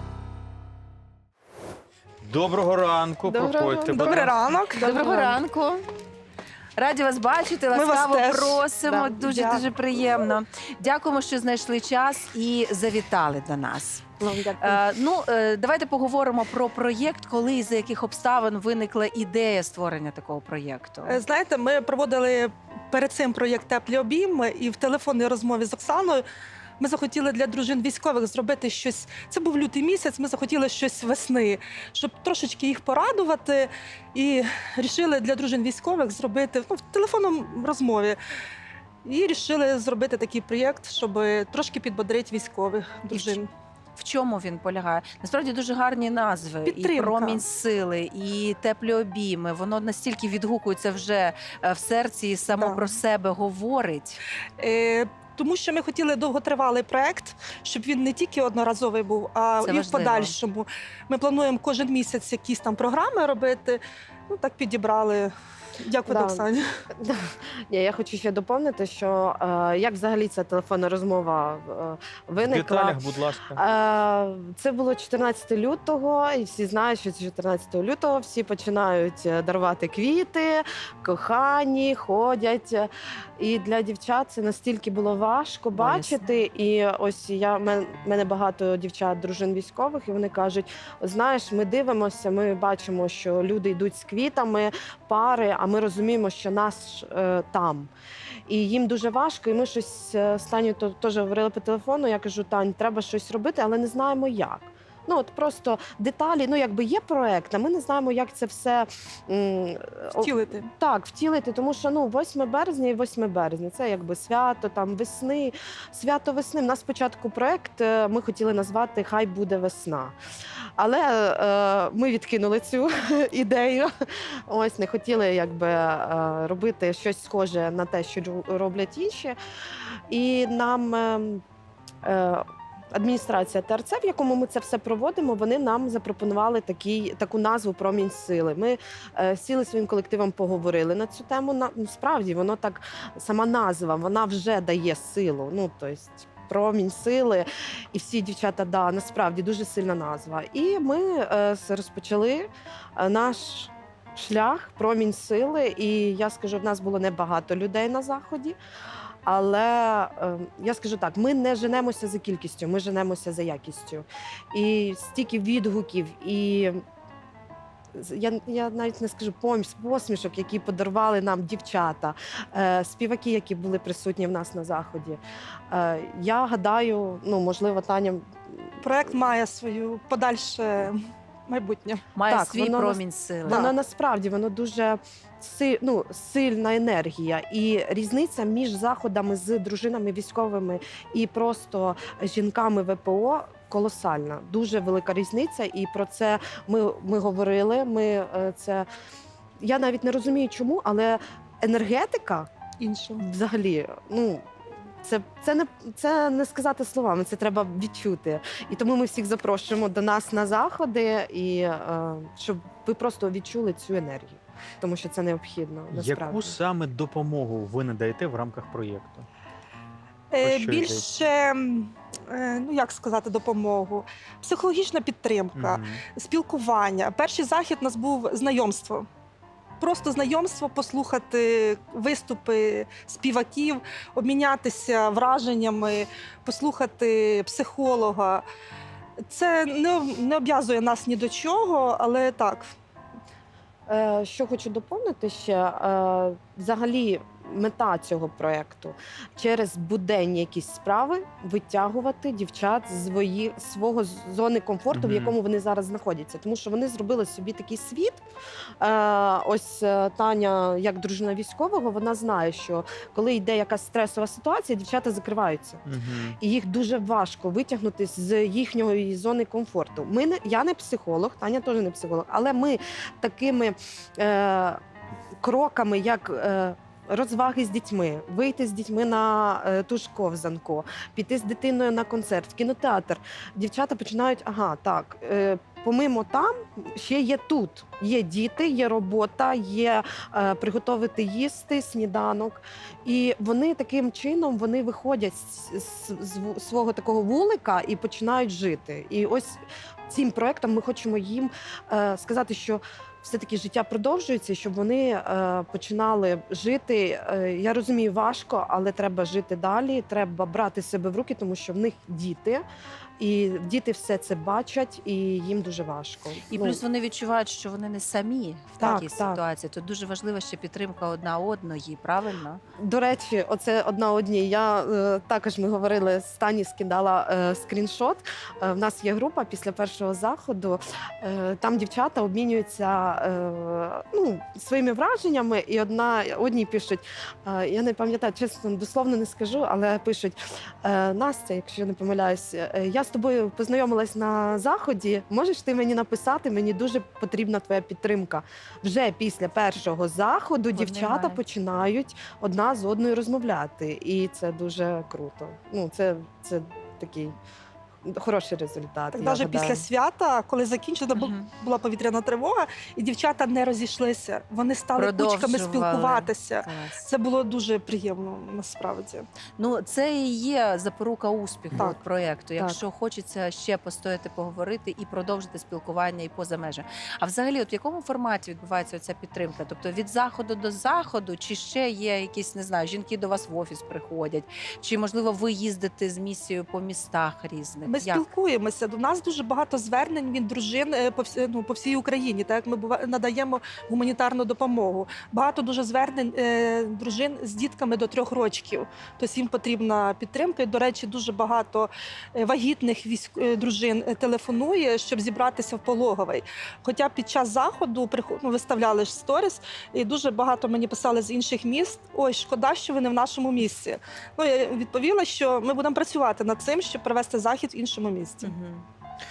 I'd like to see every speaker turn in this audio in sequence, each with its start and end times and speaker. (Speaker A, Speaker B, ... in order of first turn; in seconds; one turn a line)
Speaker A: 2.2-4.4
Speaker B: 3.3-4.3
Speaker C: 3.9-5.4
Speaker D: 4.8-5.8
Speaker D: 6.8-14.1
Speaker C: 7.7-9.7
Speaker B: 14.2-14.9
Speaker D: 14.6-21.2
Speaker C: 21.1-26.3
Speaker C: 26.8-38.2
Speaker C: 39.0-43.5
Speaker D: 43.1-43.4
Speaker D: 44.0-54.2
Speaker C: 46.7-47.4
Speaker C: 52.5-52.9
Speaker C: 54.6-66.6
Speaker D: 59.6-60.4
Speaker B: 66.1-66.5
Speaker B: 67.0-73.0
Speaker A: 72.4-73.6
Speaker B: 73.5-97.9
Speaker D: 85.7-86.2
Speaker B: 98.5-120.2
Speaker C: 110.2-110.7
Speaker B: 120.8-123.9
Speaker B: 124.5-129.4
Speaker B: 130.1-131.4
Speaker B: 132.0-158.6
Speaker B: 159.2-166.8
Speaker B: 167.9-178.2
Speaker C: 178.8-182.1
Speaker D: 182.2-183.7
Speaker B: 182.3-198.9
Speaker C: 183.5-183.7
Speaker B: 199.6-202.5
Speaker C: 202.8-203.2
Speaker B: 203.2-204.4
Speaker B: 205.0-216.6
Speaker A: 215.9-219.3
Speaker C: 220.3-229.1
Speaker A: 220.4-221.1
Speaker A: 225.6-226.0
Speaker C: 229.8-238.4
Speaker C: 239.3-242.7
Speaker B: 243.9-258.2
Speaker A: 254.9-255.3
Speaker B: 258.8-265.8
Speaker A: 265.9-266.4
Speaker B: 266.4-274.8
Speaker B: 275.4-312.6
Speaker B: 313.2-316.8
Speaker D: 316.5-322.6
Speaker B: 318.8-319.4
Speaker B: 322.8-357.4
Speaker D: 350.7-351.4
Speaker B: 358.0-359.9
Speaker C: 359.1-369.3
Speaker D: 361.1-361.5
Speaker D: 364.9-367.1
Speaker D: 369.6-388.3
Speaker C: 387.9-418.5
Speaker D: 418.4-418.9